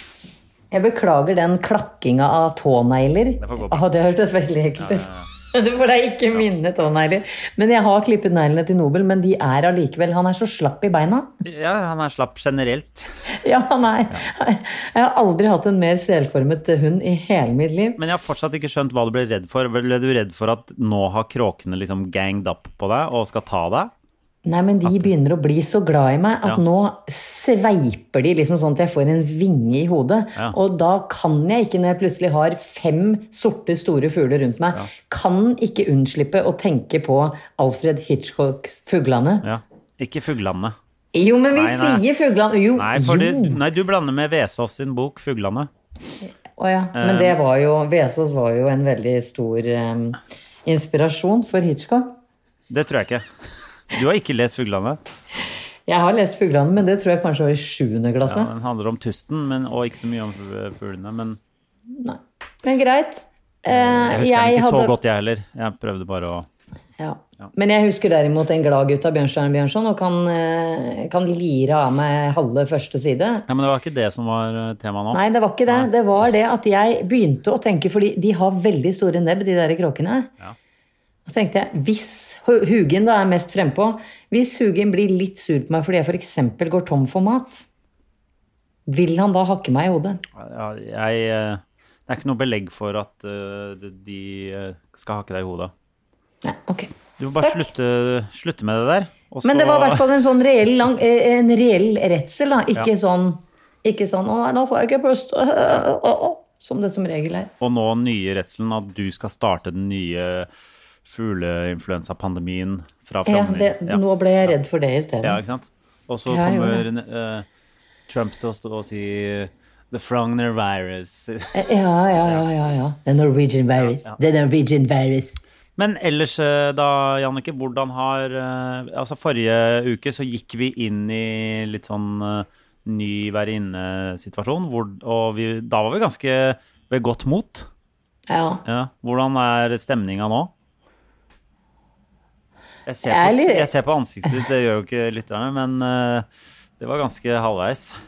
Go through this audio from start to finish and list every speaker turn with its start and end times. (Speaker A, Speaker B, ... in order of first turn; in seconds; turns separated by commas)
Speaker A: 0.7-11.3, Speaker B: 3.4-3.9, Speaker B: 4.8-5.3, Speaker B: 11.4-13.1, Speaker A: 13.3-18.0, Speaker B: 18.0-23.9, Speaker A: 24.4-39.5, Speaker B: 24.8-25.1, Speaker B: 39.4-40.8, Speaker A: 41.1-43.6, Speaker B: 41.5-42.0, Speaker B: 42.8-45.7, Speaker A: 46.6-52.2, Speaker B: 47.0-47.4, Speaker B: 52.7-53.2, Speaker B: 53.9-55.0, Speaker A: 55.9-58.5, Speaker B: 58.2-61.4, Speaker A: 61.9-65.0, Speaker B: 63.7-66.5, Speaker A: 67.0-73.5, Speaker B: 73.5-75.9, Speaker A: 75.1-80.3, Speaker A: 81.2-87.6, Speaker A: 88.9-90.2, Speaker B: 90.4-95.7, Speaker A: 96.4-97.7, Speaker B: 97.2-100.1, Speaker A: 99.4-107.5, Speaker B: 107.6-110.5, Speaker B: 111.0-114.5, Speaker A: 113.3-115.4, Speaker B: 115.2-117.5, Speaker A: 116.3-116.8, Speaker B: 118.1-121.6, Speaker A: 121.5-125.4, Speaker B: 123.8-124.2, Speaker B: 125.8-137.7, Speaker A: 138.3-138.6, Speaker B: 138.7-140.5, Speaker B: 142.8-146.3, Speaker A: 143.1-143.7, Speaker B: 146.8-147.9